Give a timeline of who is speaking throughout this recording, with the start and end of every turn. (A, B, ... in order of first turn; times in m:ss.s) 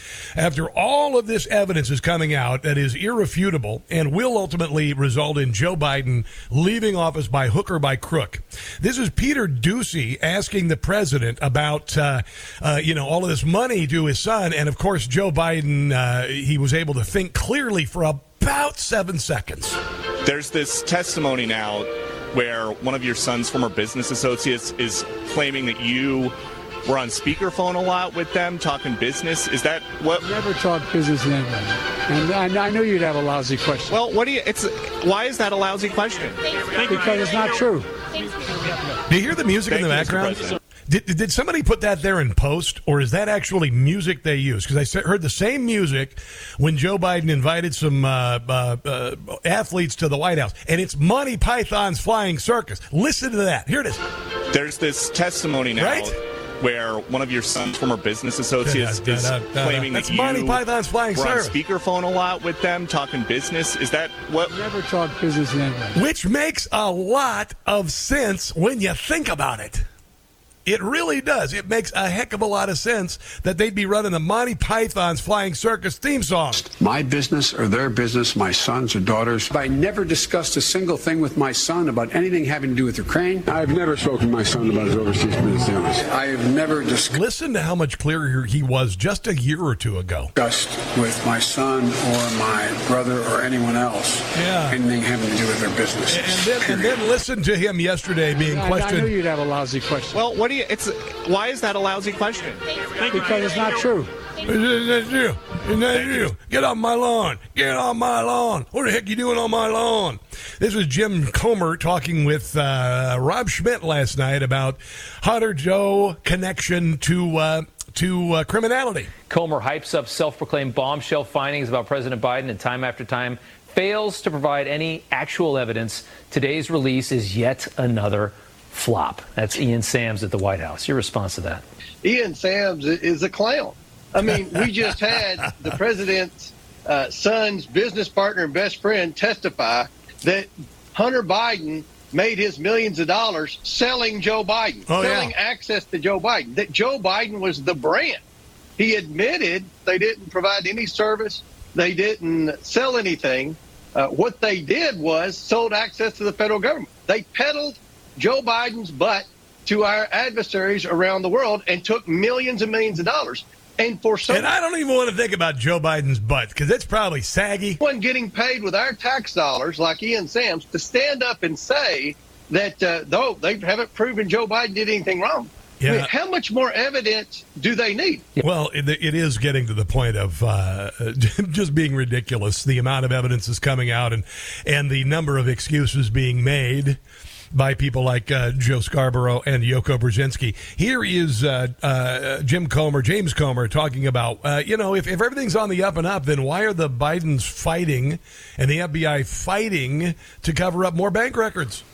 0:00.4-0:19.8 A
0:20.2-0:30.3 B
0:30.2-0:34.0 C
0:33.9-0:36.5 B
0:36.8-0:37.9 C
0:39.1-0:54.0 A
0:39.7-0:40.6 B
0:54.5-1:04.5 B
0:55.8-0:56.1 A
0:58.6-1:01.6 A
1:04.4-1:06.0 C
1:05.9-1:09.8 A
1:10.6-1:16.6 A
1:16.6-1:27.2 D
1:27.1-1:30.3 A
1:30.3-1:37.0 D
1:34.3-1:34.8 A
1:36.1-1:39.1 A
1:38.4-1:40.2 C
1:40.3-1:42.6 B
1:43.0-1:44.1 C
1:44.4-1:59.1 A
1:59.3-2:11.6 E
2:12.0-2:28.2 F
2:24.9-2:25.3 A
2:28.8-2:44.5 F
2:44.3-2:47.8 A
2:47.8-2:58.3 F
2:55.8-2:56.1 A
2:58.4-3:07.0 A
3:07.5-3:21.8 A